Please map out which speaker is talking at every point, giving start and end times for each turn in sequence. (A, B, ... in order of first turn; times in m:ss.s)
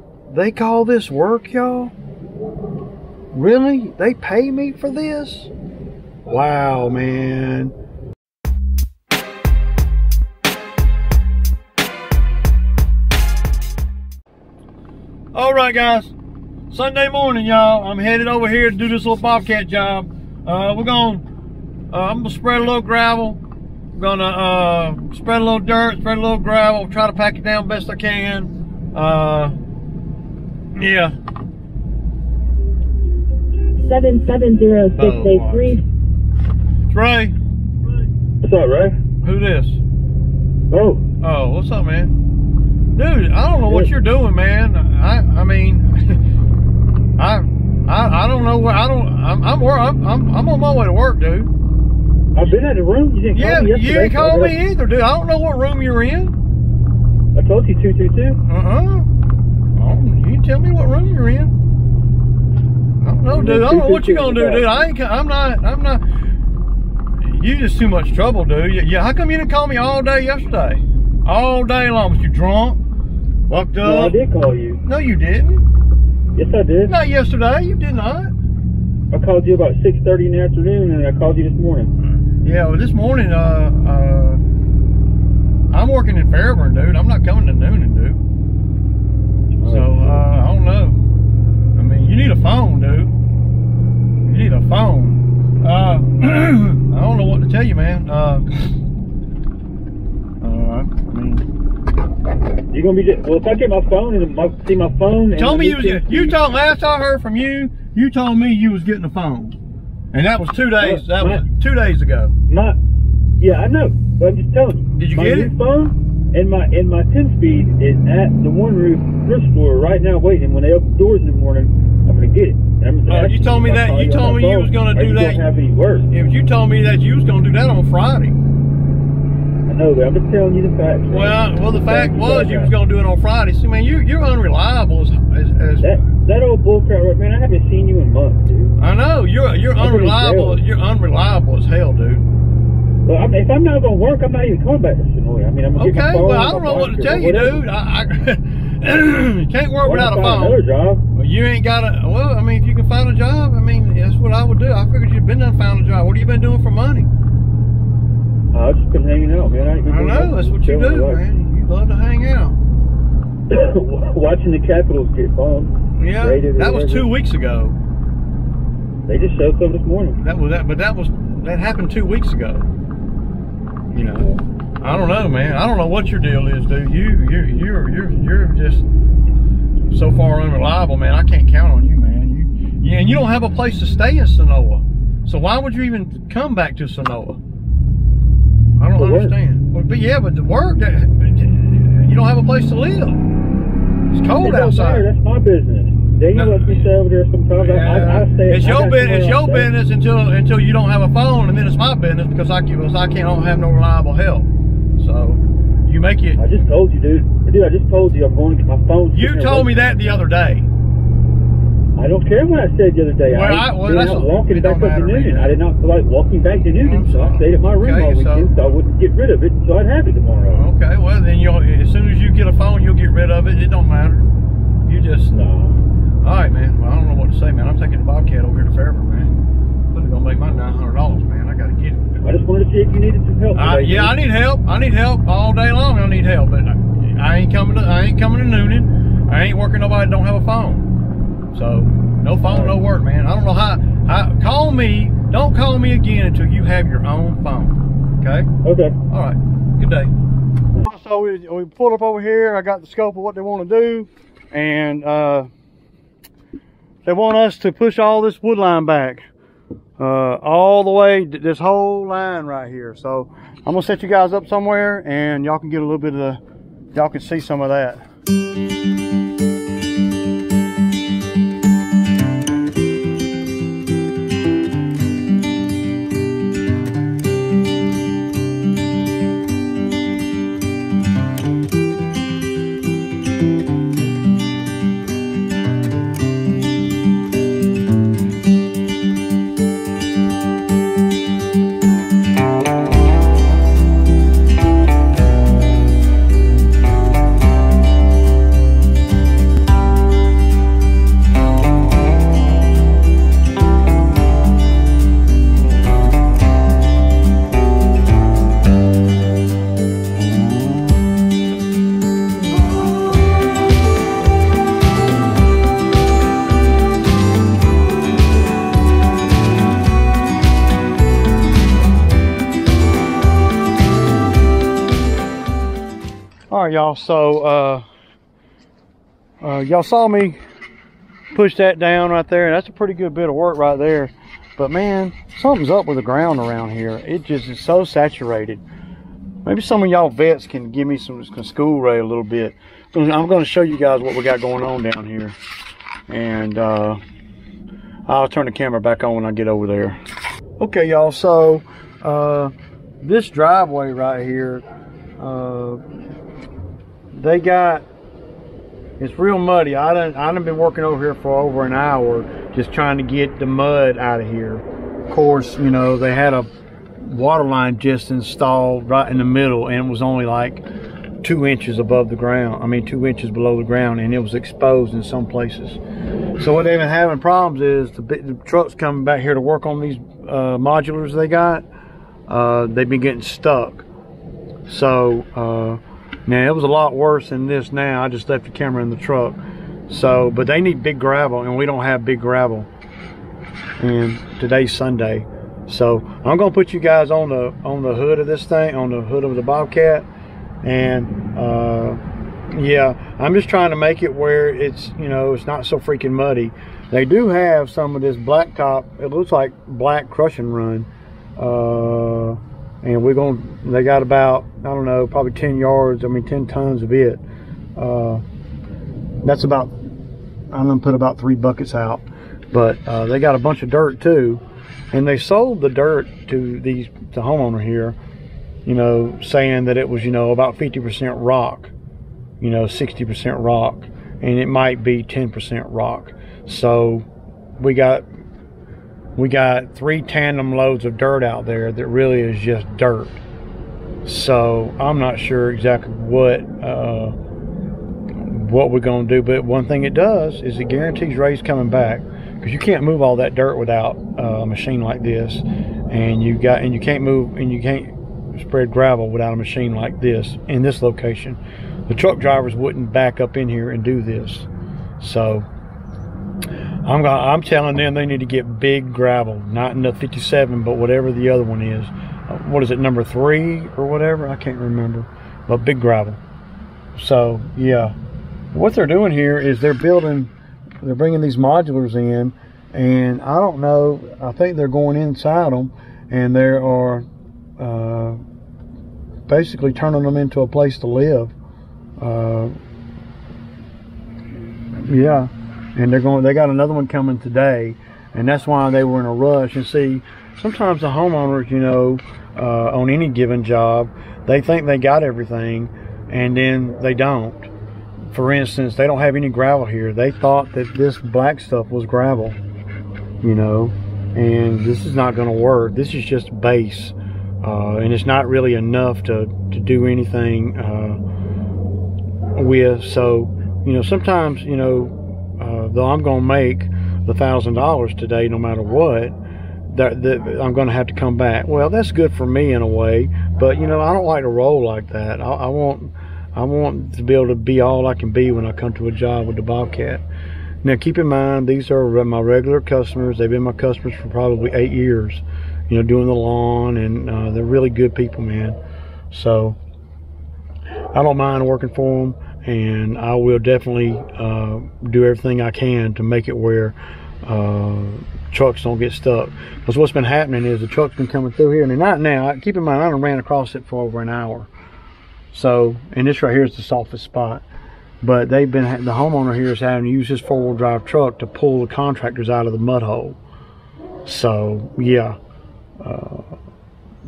0:00.3-0:01.9 A
0:03.3-0:05.5 A
0:06.2-0:07.7 A
0:15.3-0:16.1 A
0:16.7-0:21.2 A
0:21.9-0:23.4 A
0:23.9-0:29.5 A
0:30.7-0:31.2 A
0:33.8-0:35.8 B
0:34.9-0:35.8 A
0:36.9-0:37.3 A
0:38.4-0:39.0 C
0:39.2-0:39.8 A
0:40.7-0:41.0 C
0:41.2-0:42.1 A
0:42.9-0:46.2 A
0:43.6-0:43.9 C
0:47.2-0:51.5 A
0:52.3-0:54.5 C
0:53.3-0:56.4 A
0:57.3-0:58.4 C
0:58.5-0:59.1 A
0:59.7-1:01.5 A
1:03.0-1:06.0 A
1:03.2-1:04.7 C
1:07.2-1:12.8 A
1:13.5-1:14.2 A
1:13.8-1:14.8 C
1:14.8-1:15.6 A
1:16.3-1:16.9 C
1:16.9-1:18.3 A
1:19.1-1:21.9 C
1:22.2-1:24.4 A
1:25.7-1:28.2 A
1:29.6-1:30.2 C
1:29.6-1:31.0 A
1:31.7-1:33.1 A
1:34.2-1:38.5 A
1:40.4-1:41.4 A
1:42.7-1:46.4 C
1:45.3-1:49.6 A
1:50.1-1:52.3 A
1:50.8-1:51.4 C
1:52.5-1:52.8 C
1:53.4-2:06.1 C
1:54.9-1:55.5 A
2:03.1-2:05.4 A
2:06.1-2:08.4 A
2:09.7-2:12.7 C
2:11.1-2:16.0 A
2:15.8-2:18.7 C
2:18.8-2:22.2 A
2:19.8-2:20.6 C
2:23.0-2:27.6 C
2:25.7-2:30.6 A
2:29.8-2:31.0 C
2:31.1-2:37.1 A
2:38.5-2:41.2 C
2:39.6-2:42.6 A
2:43.5-2:47.1 C
2:45.9-2:47.8 A
2:49.1-2:50.2 C
2:50.2-2:52.7 A
2:53.9-2:58.8 A
2:59.9-3:07.4 A
3:08.8-3:13.2 A
3:09.0-3:09.4 C
3:14.1-3:15.0 A
3:14.4-3:19.7 C
3:16.3-3:16.9 A
3:17.5-3:26.5 A
3:26.4-3:29.8 C
3:29.1-3:30.7 A
3:32.0-3:40.6 C
3:33.3-3:35.6 A
3:36.7-3:38.5 A
3:40.5-3:44.3 A
3:44.8-3:45.4 A
3:45.3-3:45.8 C
3:46.2-3:49.3 A
3:49.9-3:52.0 A
3:52.2-3:54.2 C
3:53.5-4:00.9 A
4:01.5-4:08.5 A
4:02.5-4:02.8 C
4:08.6-4:08.9 C
4:09.1-4:10.1 A
4:10.8-4:15.5 A
4:17.0-4:19.3 A
4:20.0-4:26.4 A
4:26.9-4:28.0 A
5:26.5-5:27.8 A
5:29.4-5:30.4 A
5:31.3-5:38.6 A
5:39.4-5:45.4 A
5:46.1-5:47.0 A
5:48.1-5:50.0 A
5:50.6-5:54.6 A
5:55.2-5:55.8 A
5:57.1-5:57.8 A
5:59.0-6:06.5 A
6:07.0-6:10.6 A
6:11.2-6:15.8 A
6:16.4-6:21.6 A
6:22.3-6:23.9 A
6:24.7-6:32.7 A
6:33.8-6:40.1 A
6:40.6-6:57.2 A
6:57.8-6:58.2 A
6:59.2-6:59.8 A
7:00.5-7:08.0 A
7:08.6-7:11.7 A
7:12.4-7:17.0 A
7:17.6-7:18.0 A
7:19.2-7:23.2 A
7:24.0-7:27.1 A
7:28.2-7:44.5 A
7:45.0-7:45.5 A
7:46.8-7:56.2 A
7:56.9-7:57.9 A
7:58.5-8:07.0 A
8:07.6-8:08.2 A
8:09.3-8:11.3 A
8:12.0-8:12.5 A
8:14.7-8:27.5 A
8:28.1-8:32.4 A
8:33.2-8:41.0 A
8:42.3-8:49.1 A
8:49.7-9:00.0 A
9:00.6-9:08.6 A
9:09.1-9:09.6 A
9:10.9-9:24.5 A
9:25.3-9:27.4 A
9:28.0-9:33.2 A
9:34.0-9:35.2 A
9:35.8-9:36.3 A